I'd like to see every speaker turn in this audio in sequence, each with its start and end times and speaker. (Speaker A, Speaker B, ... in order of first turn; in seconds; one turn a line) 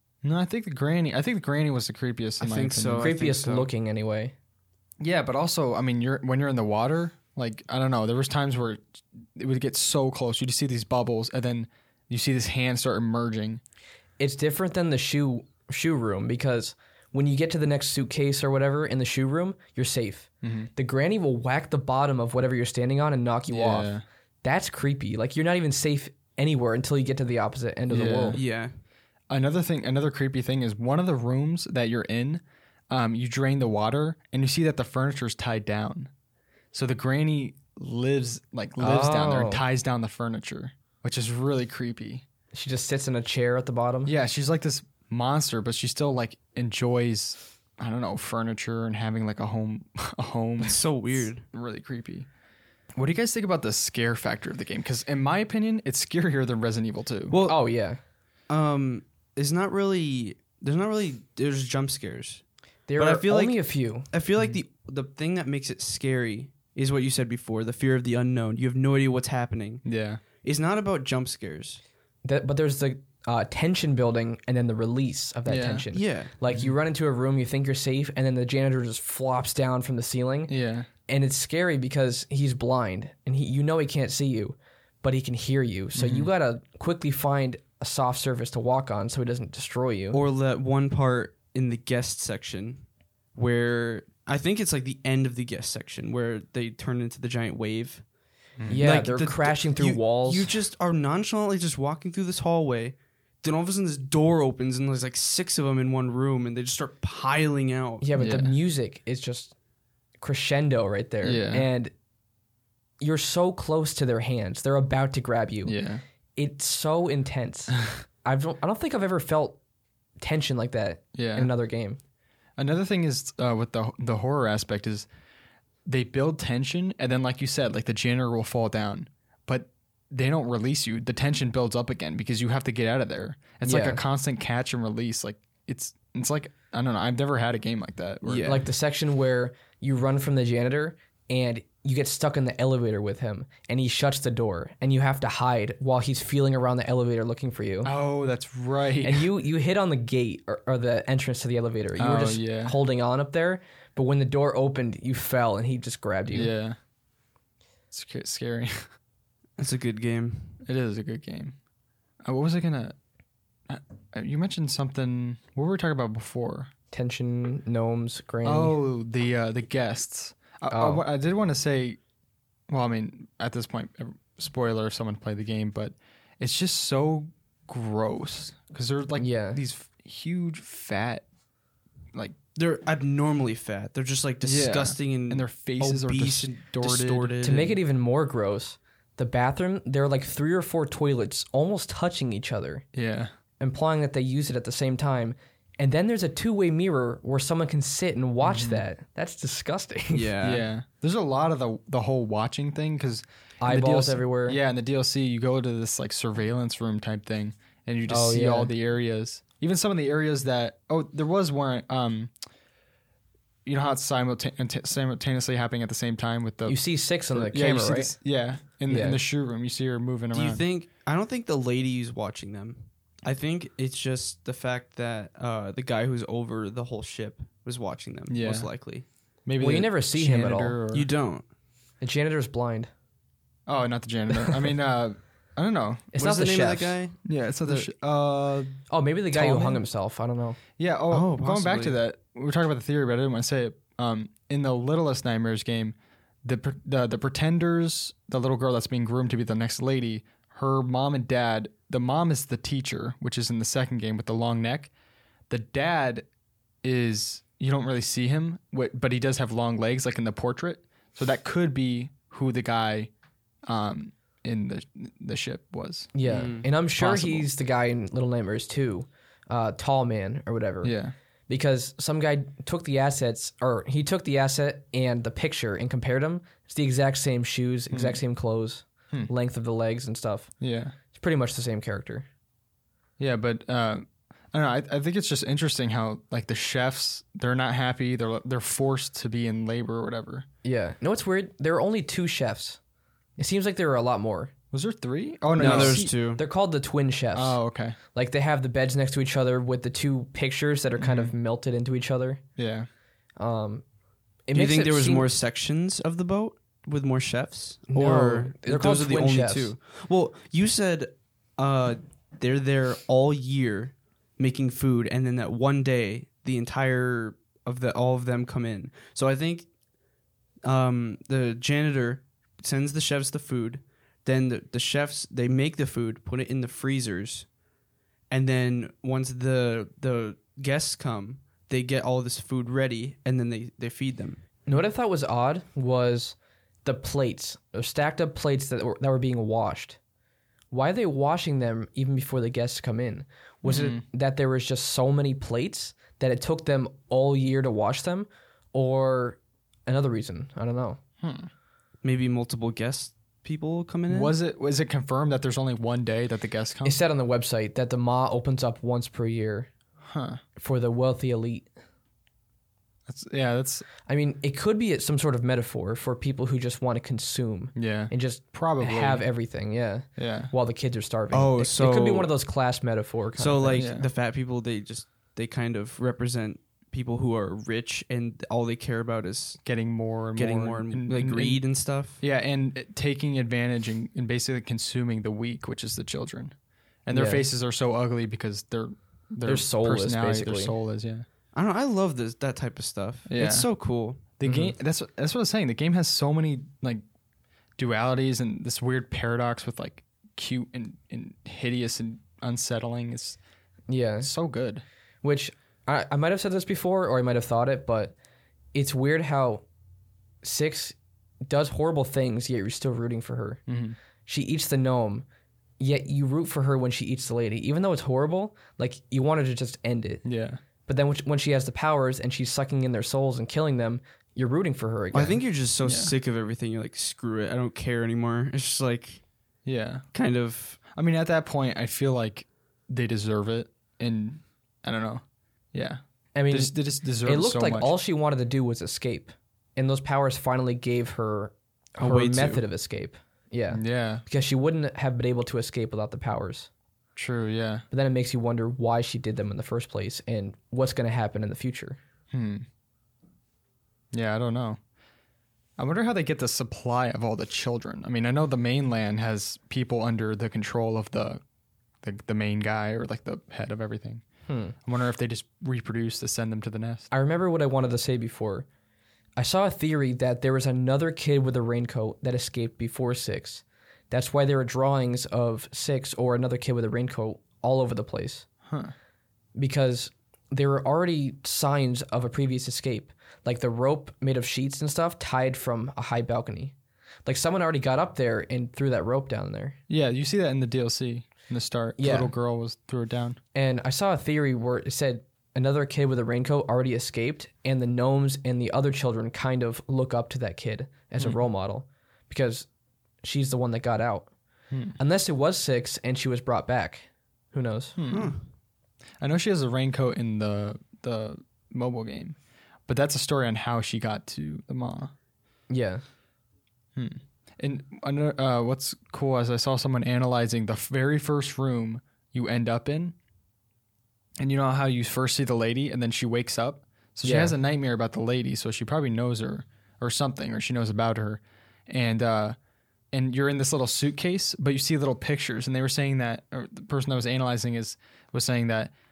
Speaker A: 0.2-3.1
Speaker B: 2.4-3.7
Speaker C: 3.0-4.3
Speaker A: 5.0-13.6
Speaker C: 14.2-28.4
Speaker A: 20.4-20.7
Speaker A: 23.5-24.0
Speaker A: 27.9-28.4
Speaker B: 28.3-28.7
Speaker A: 29.3-36.1
Speaker A: 36.7-42.2
Speaker C: 38.8-39.6
Speaker C: 42.5-44.1
Speaker A: 44.0-52.3
Speaker B: 50.6-51.4
Speaker A: 53.0-57.3
Speaker B: 57.3-57.6
Speaker C: 57.5-58.0
Speaker B: 58.5-62.4
Speaker C: 62.9-64.1
Speaker B: 63.0-63.6
Speaker B: 64.1-69.8
Speaker A: 69.8-70.2
Speaker B: 70.4-71.8
Speaker C: 72.2-80.5
Speaker A: 75.5-75.8
Speaker B: 75.9-76.3
Speaker A: 76.5-76.8
Speaker A: 80.5-80.9
Speaker C: 81.1-90.2
Speaker A: 85.9-86.3
Speaker B: 90.1-98.0
Speaker C: 98.7-100.5
Speaker B: 98.8-108.1
Speaker C: 108.0-109.5
Speaker A: 108.2-108.5
Speaker C: 110.2-111.9
Speaker A: 111.2-111.7
Speaker C: 113.0-115.8
Speaker A: 115.6-116.0
Speaker C: 116.4-119.6
Speaker C: 120.2-122.0
Speaker A: 121.1-121.5
Speaker A: 122.6-125.1
Speaker A: 125.9-138.6
Speaker C: 133.6-134.0
Speaker B: 138.2-138.6
Speaker C: 138.4-147.9
Speaker A: 147.8-149.3
Speaker C: 149.0-156.5
Speaker A: 151.9-152.8
Speaker A: 156.3-156.8
Speaker A: 157.9-158.9
Speaker B: 159.6-160.6
Speaker A: 160.6-161.6
Speaker A: 162.2-162.9
Speaker A: 163.7-166.7
Speaker C: 166.9-168.8
Speaker A: 168.4-172.0
Speaker C: 170.7-171.0
Speaker A: 172.7-181.2
Speaker C: 179.2-179.6
Speaker B: 182.5-187.8
Speaker A: 184.4-187.4
Speaker C: 187.4-192.8
Speaker A: 192.9-193.3
Speaker C: 193.6-200.3
Speaker A: 198.4-198.8
Speaker B: 200.1-200.7
Speaker A: 200.4-212.3
Speaker C: 203.6-204.6
Speaker C: 208.1-208.7
Speaker A: 213.7-216.8
Speaker C: 216.7-218.1
Speaker A: 217.3-220.6
Speaker C: 218.9-219.2
Speaker B: 220.3-229.1
Speaker A: 228.3-228.7
Speaker A: 229.4-231.1
Speaker C: 229.6-230.8
Speaker B: 230.9-231.4
Speaker C: 232.0-232.9
Speaker A: 233.7-236.1
Speaker C: 234.3-234.7
Speaker C: 236.1-237.0
Speaker B: 236.2-237.2
Speaker A: 237.2-239.8
Speaker C: 238.9-240.6
Speaker A: 240.8-254.9
Speaker B: 241.1-242.0
Speaker A: 255.5-256.3
Speaker A: 256.8-263.1
Speaker A: 263.6-266.1
Speaker C: 266.1-270.9
Speaker B: 266.2-266.7
Speaker A: 267.0-267.5
Speaker A: 270.8-271.1
Speaker C: 271.5-280.5
Speaker A: 277.9-278.2
Speaker A: 280.6-280.9
Speaker C: 281.1-282.2
Speaker A: 283.2-290.4
Speaker C: 290.6-292.8
Speaker C: 293.4-294.5
Speaker A: 294.7-296.1
Speaker B: 295.6-296.4
Speaker C: 295.6-297.6
Speaker A: 297.3-298.0
Speaker C: 298.1-302.4
Speaker A: 301.0-301.3
Speaker A: 302.6-302.9
Speaker C: 303.4-303.8
Speaker C: 304.5-305.3
Speaker B: 304.5-319.7
Speaker C: 307.9-309.7
Speaker B: 320.6-327.5
Speaker B: 328.3-334.4
Speaker C: 334.6-340.0
Speaker C: 340.7-351.0
Speaker A: 343.6-344.0
Speaker A: 351.2-351.5
Speaker B: 352.0-354.3
Speaker A: 354.1-357.0
Speaker C: 356.8-359.7
Speaker A: 360.0-360.4
Speaker C: 360.6-361.7
Speaker A: 363.1-363.9
Speaker C: 364.1-373.8
Speaker A: 367.7-369.2
Speaker A: 370.2-370.5
Speaker B: 371.3-372.3
Speaker B: 373.4-379.6
Speaker A: 373.8-374.1
Speaker A: 379.6-381.6
Speaker B: 380.4-382.2
Speaker A: 382.2-386.5
Speaker A: 387.1-391.2
Speaker C: 387.1-387.4
Speaker C: 389.4-390.7
Speaker B: 391.5-394.2
Speaker A: 393.3-393.7
Speaker A: 394.4-397.0
Speaker C: 394.4-394.8
Speaker A: 397.8-403.4
Speaker C: 403.9-404.3
Speaker A: 404.2-404.8
Speaker C: 405.2-408.1
Speaker C: 408.7-409.6
Speaker C: 410.4-410.9
Speaker C: 411.4-413.6
Speaker A: 413.7-414.0
Speaker C: 414.2-415.2
Speaker C: 415.8-420.2
Speaker A: 420.2-420.6
Speaker C: 420.9-425.4
Speaker B: 425.1-429.2
Speaker A: 425.8-426.1
Speaker A: 429.6-430.0
Speaker B: 430.1-430.8
Speaker A: 430.9-435.2
Speaker A: 435.7-437.9
Speaker C: 436.3-446.7
Speaker B: 442.0-442.6
Speaker A: 443.7-444.2
Speaker A: 447.1-447.8
Speaker C: 447.9-452.0
Speaker A: 452.3-452.6
Speaker A: 454.1-454.8
Speaker A: 455.8-461.4
Speaker A: 462.0-464.2
Speaker C: 464.5-464.8
Speaker A: 464.8-467.1
Speaker C: 467.1-468.6
Speaker C: 469.4-478.4
Speaker A: 478.6-478.9
Speaker C: 479.5-486.7
Speaker C: 487.2-489.8
Speaker A: 489.9-493.4
Speaker C: 492.0-492.3
Speaker C: 493.5-502.7
Speaker C: 503.2-504.3
Speaker A: 504.7-505.0
Speaker C: 505.0-508.0
Speaker A: 508.0-508.3
Speaker B: 508.1-508.4
Speaker A: 509.2-515.1
Speaker C: 515.7-516.0
Speaker A: 517.0-523.1
Speaker A: 524.4-532.5
Speaker C: 527.2-527.5
Speaker A: 533.1-538.9